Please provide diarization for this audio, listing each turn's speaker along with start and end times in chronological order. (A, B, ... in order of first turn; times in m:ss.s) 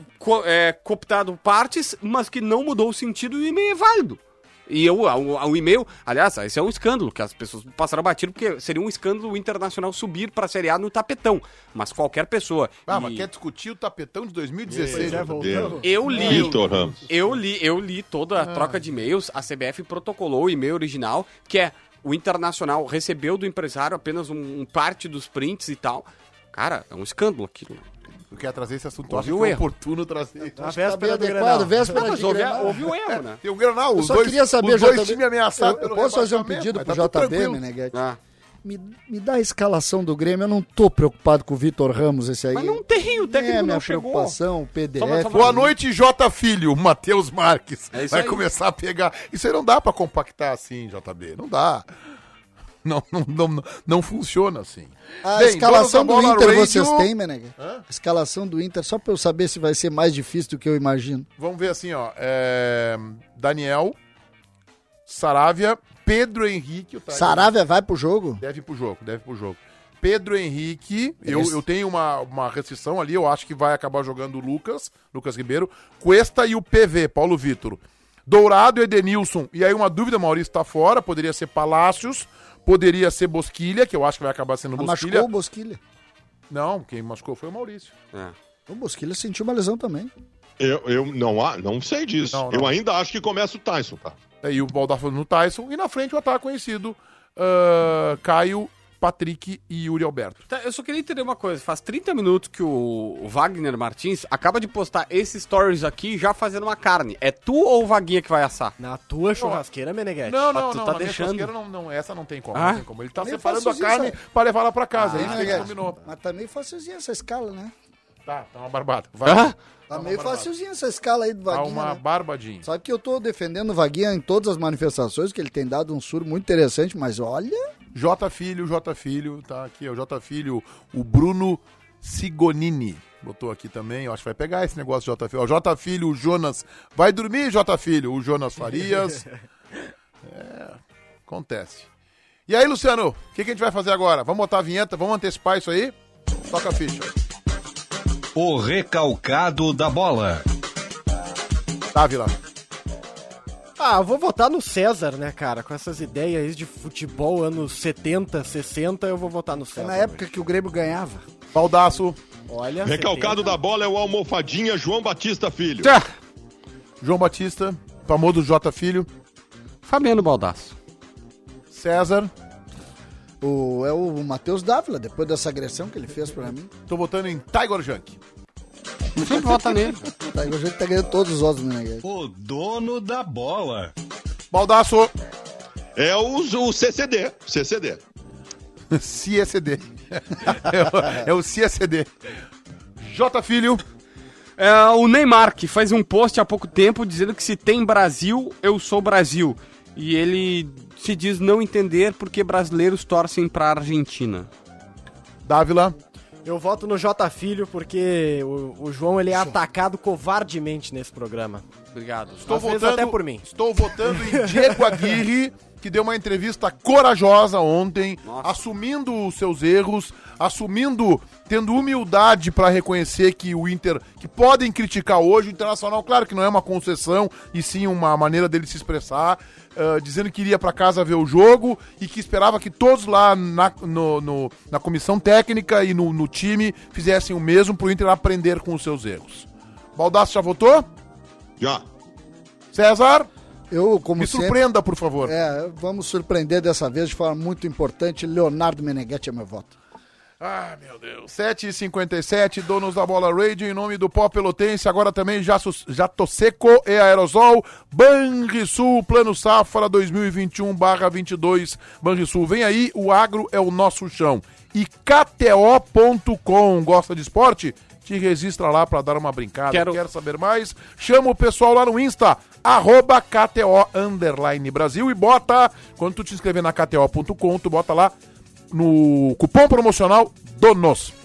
0:00.2-0:13.3 A
0:12.9-0:17.1 B
0:14.7-0:17.1 C
0:14.9-0:16.4 D
0:15.8-0:27.8 A
0:18.4-0:18.8 B
0:28.3-0:30.7 B
0:29.1-0:29.6 A
0:30.4-0:32.8 E
0:30.6-0:32.8 D
0:31.9-0:33.4 A
0:33.1-0:37.6 B
0:34.0-0:38.0 E
0:37.9-0:38.2 A
0:38.6-0:45.7 E
0:42.5-0:44.4 A
0:45.0-0:45.7 A
0:45.3-0:51.9 B
0:47.9-0:48.4 A
0:52.8-0:57.8 B
0:55.2-1:01.3 E
1:01.4-1:04.0 B
1:05.1-1:07.5 B
1:07.1-1:08.4 E
1:08.4-1:25.3 B
1:11.3-1:11.6 E
1:24.8-1:25.8 E
1:26.5-1:27.9 B
1:28.7-1:30.1 E
1:30.6-1:34.2 C
1:32.3-1:32.7 B
1:34.4-1:40.4 B
1:40.5-1:48.7 A
1:48.8-1:50.5 D
1:49.4-1:49.6 B
1:50.2-1:56.0 B
1:50.5-1:51.5 A
1:52.5-1:52.8 A
1:53.2-1:54.2 E
1:54.9-1:55.7 A
1:55.2-1:57.7 E
1:58.3-2:00.5 B
1:59.2-1:59.6 A
1:59.9-2:02.0 E
2:01.5-2:02.7 B
2:02.6-2:07.6 E
2:07.9-2:19.2 B
2:20.2-2:21.9 B
2:22.5-2:26.0 B
2:26.5-2:27.1 B
2:28.4-2:30.4 F
2:31.9-2:32.3 B
2:33.8-2:40.2 D
2:39.8-2:41.2 E
2:41.5-2:42.2 B
2:42.5-2:43.6 D
2:42.8-2:45.9 C
2:45.8-2:46.1 A
2:47.0-2:49.1 B
2:49.8-2:50.7 A
2:51.7-2:52.3 B
2:53.4-2:56.7 E
2:56.9-2:58.2 B
2:59.2-3:00.0 A
3:00.0-3:02.0 E
3:02.0-3:03.9 F
3:04.5-3:05.1 B
3:06.0-3:08.0 C
3:08.9-3:12.1 B
3:13.0-3:13.8 B
3:14.6-3:24.5 A
3:25.4-3:26.0 B
3:26.4-3:31.6 D
3:31.9-3:32.5 A
3:32.5-4:00.9 B
3:32.5-3:33.4 D
3:34.0-3:35.2 D
3:38.2-3:38.6 A
4:02.7-4:03.3 B
4:03.7-4:04.6 E
4:04.2-4:05.3 B
4:05.2-4:09.8 E
4:10.4-4:38.1 B
4:29.7-4:30.0 A
4:38.7-4:41.1 B